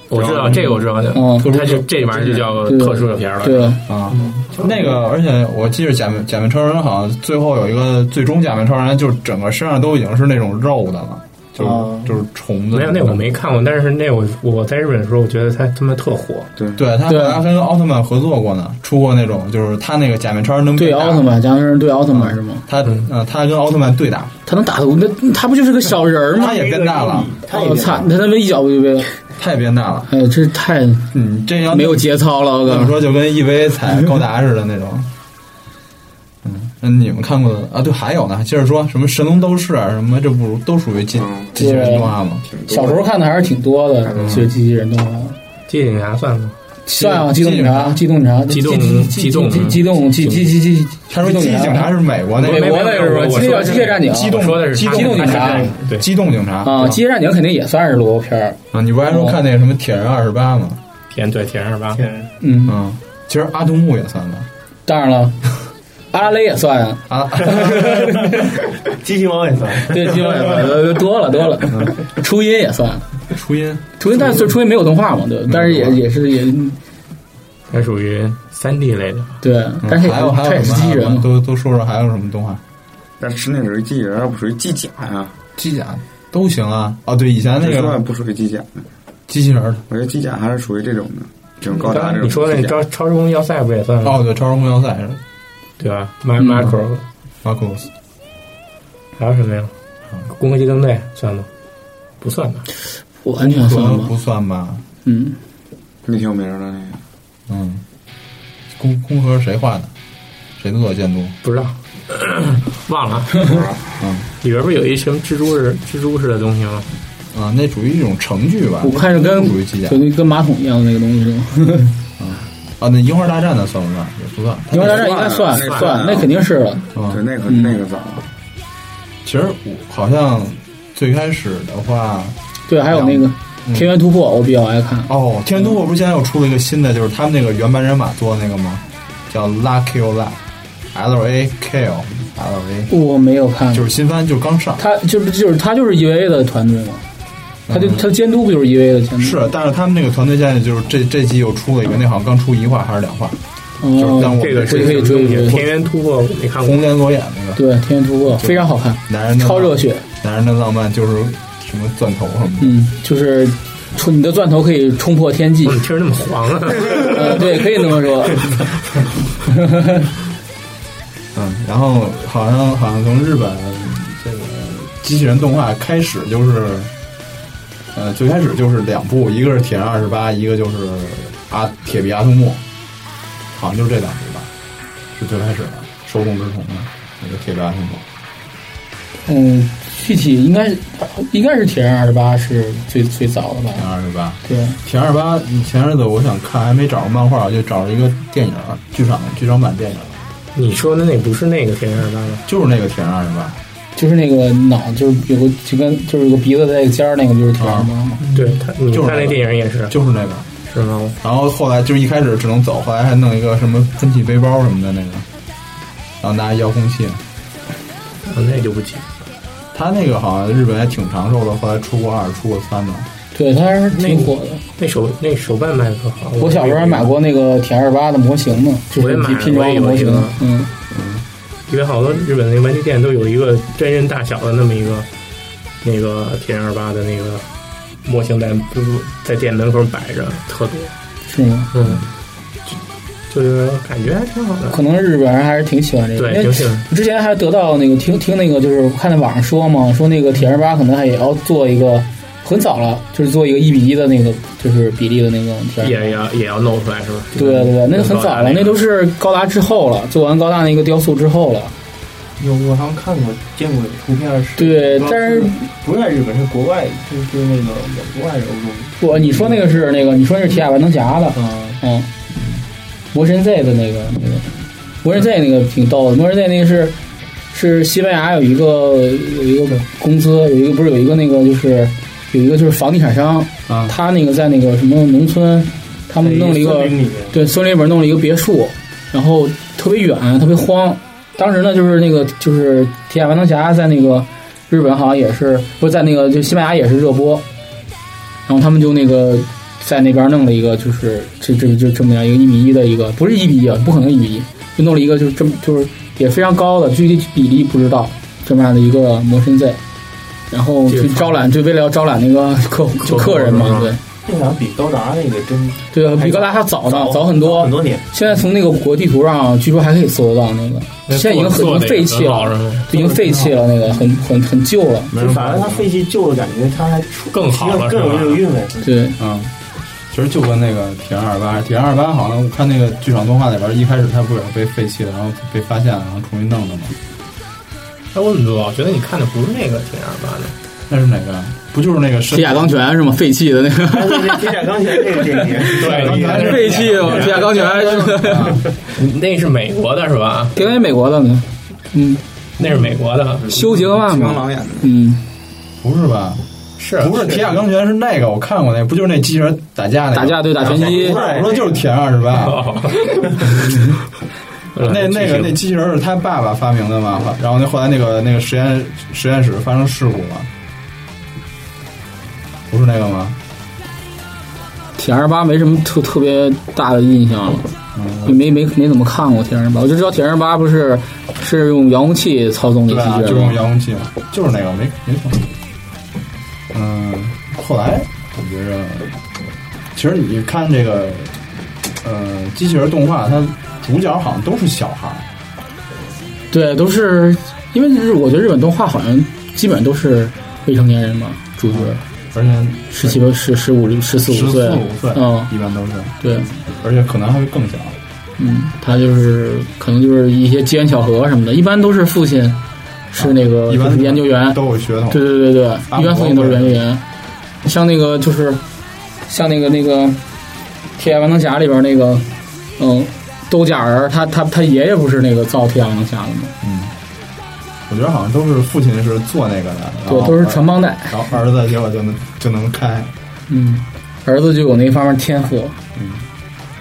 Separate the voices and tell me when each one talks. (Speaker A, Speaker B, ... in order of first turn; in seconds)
Speaker A: 0.1-3.8, 12.7-16.5, 45.7-46.5, 48.5-50.5, 52.4-56.1, 61.1-62.0, 77.7-79.4, 91.7-94.2, 95.8-97.0, 99.2-99.7, 100.3-101.5, 102.2-102.7, 111.4-113.7, 114.4-116.9, 125.5-125.9, 154.2-156.8, 165.7-167.5, 200.6-202.4, 208.3-209.9, 210.7-211.2, 218.3-219.1, 223.9-227.1, 228.9-230.4, 231.7-235.1, 235.8-237.5, 238.0-240.9, 241.7-242.1, 243.3-244.8, 246.2-246.9, 255.8-258.8, 310.9-311.4, 313.0-313.9, 321.1-322.8, 327.3-328.4, 338.1-340.6, 345.8-347.4, 348.9-350.6, 352.6-353.5, 356.8-357.3, 362.4-363.8, 364.7-365.6
Speaker B: 0.1-2.5, 3.9-13.4, 16.8-21.3, 22.1-24.3, 26.4-27.3, 29.4-30.1, 31.1-32.1, 32.6-35.1, 36.4-42.5, 44.2-44.5, 46.9-48.0, 51.1-57.0, 58.7-60.8, 62.7-64.5, 67.1-68.0, 71.7-72.0, 73.3-74.6, 75.5-76.0, 79.8-82.6, 85.6-88.0, 89.3-89.8, 94.0-95.2, 97.4-97.9, 103.4-104.8, 107.5-107.8, 108.8-109.9, 110.6-111.4, 114.0-114.3, 117.3-120.1, 122.2-125.2, 127.0-127.2, 129.2-132.4, 132.9-133.9, 135.1-140.4, 140.9-142.9, 143.7-144.8, 147.7-148.1, 149.2-153.4, 153.9-155.7, 156.6-157.7, 158.3-162.8, 171.3-176.9, 177.9-182.6, 183.5-184.5, 185.2-188.0, 193.8-200.2, 202.5-203.6, 207.6-208.1, 208.9-210.5, 211.2-215.3, 216.2-217.2, 219.7-223.1, 230.9-231.2, 283.7-283.9, 325.1-325.9, 329.2-329.5, 330.1-337.0, 340.9-342.8, 345.9-347.3, 348.2-348.6, 355.8-356.4, 356.9-362.7, 363.4-364.0, 364.8-370.5, 372.7-373.4, 377.9-378.4, 382.9-385.5, 386.7-389.1, 389.9-391.4, 392.0-395.3, 401.7-403.2, 404.2-408.0, 413.2-415.3, 415.9-416.8, 426.6-426.9, 427.9-433.1, 435.9-436.3
Speaker C: 1.1-1.5, 2.7-3.8, 17.1-17.4, 20.8-22.6, 24.5-26.6, 27.5-29.1, 30.1-31.1, 31.7-33.0, 41.6-42.1, 42.7-45.4, 46.9-55.7, 56.6-58.6, 59.1-59.4, 62.4-62.8, 64.9-65.4, 66.1-68.3, 69.9-73.1, 74.0-76.8, 79.4-81.3, 103.2-104.1, 105.0-105.4, 118.8-121.9, 124.7-126.8, 132.7-135.1, 142.9-143.9, 144.8-147.1, 147.7-149.4, 153.8-155.6, 157.6-160.0, 162.6-165.8, 167.0-168.5, 169.7-170.1, 189.3-193.8, 194.4-194.8, 204.0-208.2, 223.3-224.6, 226.4-230.7, 241.3-241.7, 244.7-256.0, 257.4-261.7, 264.6-265.6, 269.0-272.1, 273.1-274.5, 275.0-277.0, 277.5-297.4, 298.5-309.8, 310.5-314.0, 315.9-325.1, 328.8-329.2, 342.3-344.5, 346.3-348.6, 350.6-352.2, 353.5-355.2, 360.1-361.2, 375.0-377.7, 378.2-383.6, 396.5-402.0, 402.9-405.5, 406.2-406.5, 408.4-412.6, 413.1-417.0, 417.6-418.6, 419.3-420.2, 421.0-426.5, 430.1-431.1, 433.5-435.8
Speaker D: 4.1-5.0, 11.6-12.2, 26.4-28.1, 55.3-55.8, 61.9-62.3, 67.5-70.7, 208.2-208.6, 262.4-269.7, 271.4-271.8, 286.2-287.4, 314.2-318.1, 322.9-324.1, 325.1-328.9, 343.9-348.2, 360.6-361.8
Speaker E: 16.6-16.8, 41.1-41.6, 42.5-43.0, 44.0-44.4, 83.2-85.4, 87.6-88.8, 89.9-92.8, 106.1-107.0, 113.4-113.8, 124.8-126.3, 127.0-128.3, 353.4-354.9